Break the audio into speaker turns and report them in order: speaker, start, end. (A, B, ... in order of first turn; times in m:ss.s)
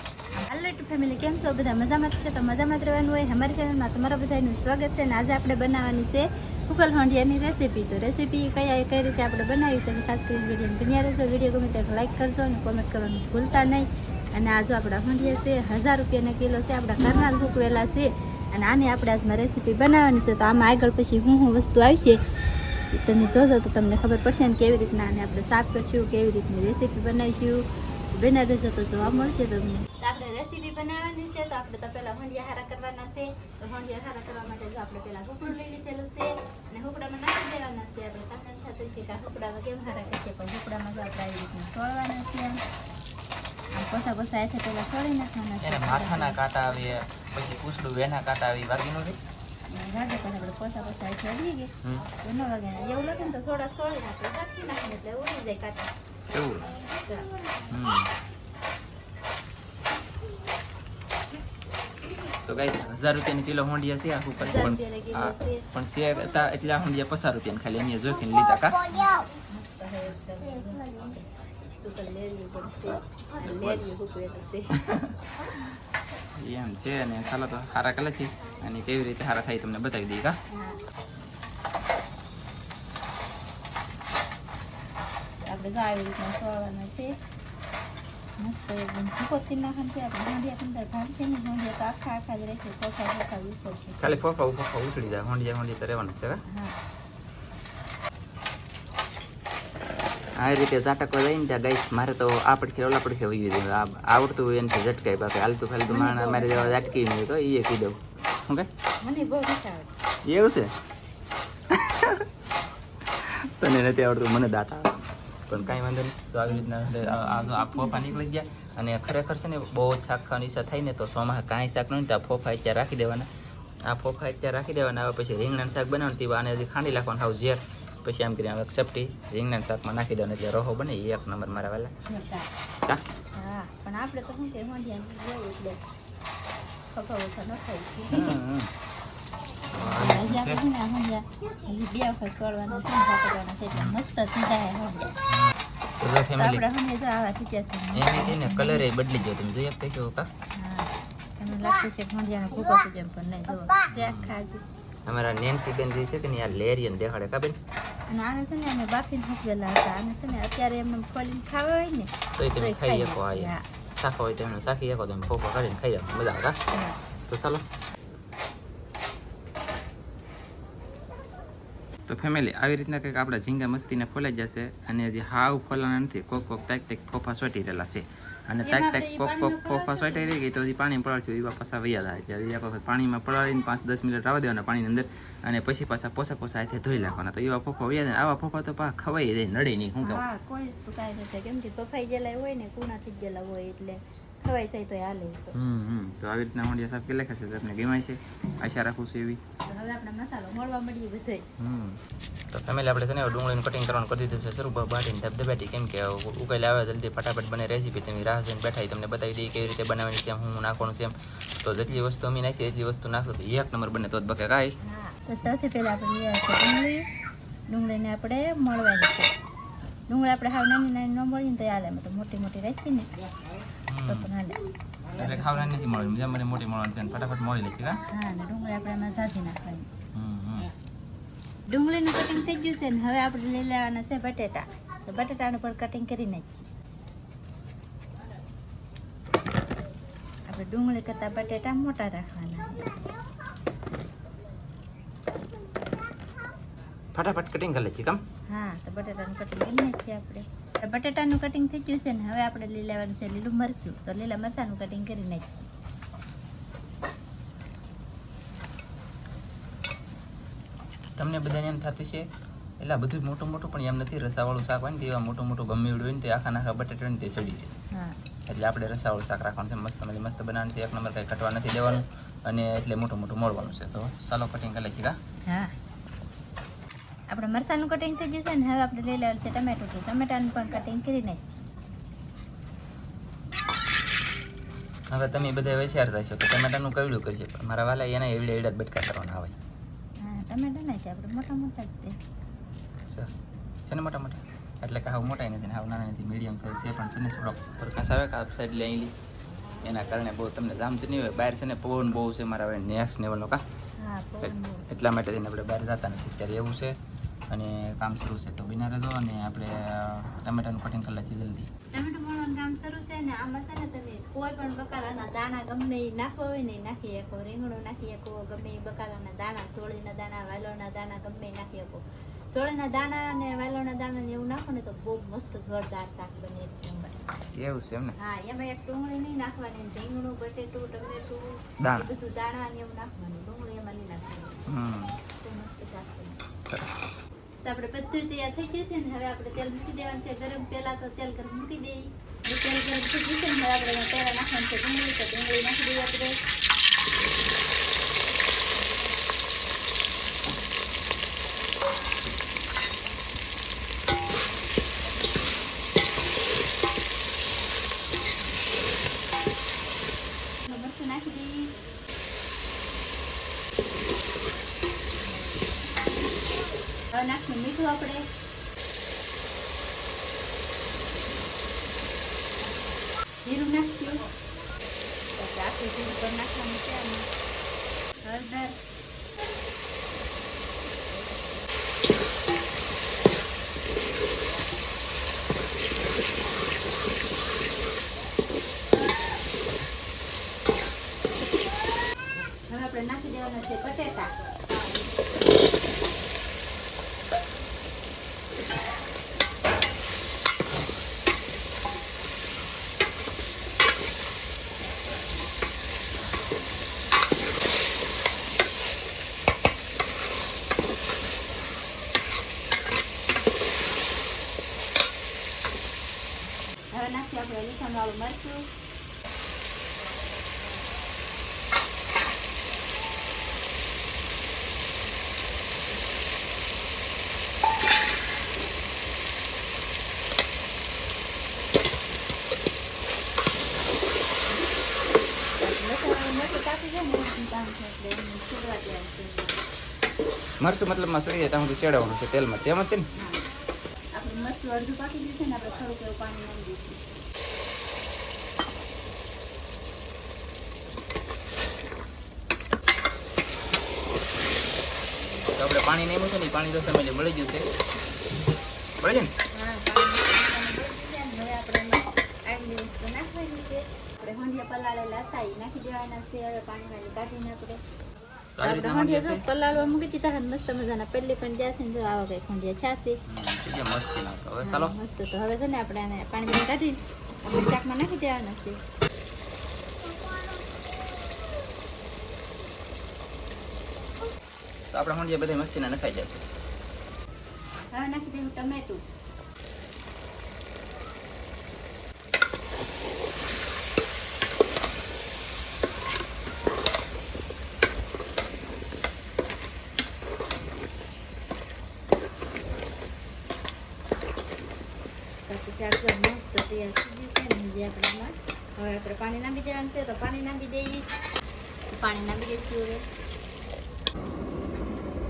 0:00.4-0:22.2 A
0:22.9-0:42.6 A
0:43.8-0:46.4 A
0:45.6-0:49.2 B
0:49.7-0:55.9 A
0:56.3-0:56.7 B
0:56.9-0:57.3 A
0:57.7-0:58.1 B
1:02.4-1:08.9 B
1:04.4-1:05.6 A
1:08.9-1:11.2 A
1:11.8-1:14.8 A
1:13.4-1:13.8 B
1:14.8-1:15.1 B
1:16.4-1:20.4 B
1:20.5-1:20.8 A
1:25.5-1:27.1 A
1:28.4-1:34.2 A
1:34.0-1:36.4 B
1:40.4-1:48.7 B
1:45.9-1:46.9 A
1:49.0-1:49.9 A
1:50.2-1:50.7 B
1:51.7-1:52.2 B
1:53.2-2:03.3 B
1:56.4-1:58.2 A
2:03.9-2:11.9 B
2:12.1-2:12.5 A
2:13.4-2:15.8 A
2:16.9-2:18.4 A
2:18.1-2:18.7 B
2:19.7-2:20.6 B
2:19.7-2:25.1 A
2:25.3-2:26.6 B
2:26.4-2:28.8 A
2:27.9-2:30.3 B
2:30.6-2:34.6 A
2:33.9-2:34.3 B
2:35.1-2:37.6 B
2:38.1-2:43.6 A
2:42.4-2:46.6 B
2:46.7-2:47.0 A
2:47.3-2:47.6 B
2:52.1-3:10.2 B
2:58.6-3:00.4 A
3:10.0-3:15.5 A
3:15.5-3:19.4 B
3:19.7-3:21.4 A
3:21.6-3:22.0 B
3:22.5-3:34.7 B
3:34.8-3:37.0 A
3:37.7-3:39.3 A
3:40.1-3:43.1 A
3:43.9-3:44.3 B
3:44.1-3:44.6 A
3:45.1-3:45.7 A
3:45.1-3:48.0 B
3:48.1-3:49.8 A
3:50.1-3:50.7 B
3:51.7-3:56.7 A
4:00.5-4:02.8 A
4:07.1-4:08.2 B
4:08.5-4:15.6 A
4:21.2-4:22.3 B
4:22.8-4:27.7 B
4:27.9-4:28.2 A
4:28.5-4:35.2 B
4:35.5-4:35.7 A
4:37.3-4:41.6 A
4:45.1-4:49.6 B
4:50.2-4:52.2 A
4:53.9-4:59.1 B
4:59.8-5:03.6 B
5:04.0-5:04.9 A
5:04.4-5:06.9 B
5:07.5-5:11.7 B
5:11.9-5:27.2 A
5:27.6-5:28.2 B
5:28.2-5:34.6 A
5:31.8-5:32.1 B
5:34.7-5:35.1 B
5:35.4-5:36.4 A
5:36.7-5:37.2 B
5:37.6-5:46.4 A
6:00.6-6:01.7 A
6:07.1-6:08.2 A
6:13.4-6:14.3 A
6:15.4-6:17.2 A
6:18.2-6:18.8 A
6:32.7-6:34.3 A
6:56.9-6:58.7 A
7:15.6-7:19.6 A
7:20.6-7:23.1 B
7:23.2-7:23.4 A
7:24.2-7:27.0 A
7:35.6-7:37.7 B
7:39.0-7:39.3 B
7:39.5-7:47.8 A
7:48.6-7:49.4 B
7:48.6-7:53.2 A
7:53.3-7:54.9 B
7:54.6-7:58.8 A
8:04.9-8:06.4 B
8:07.9-8:09.0 A
8:25.5-8:31.1 A
8:31.9-8:33.0 A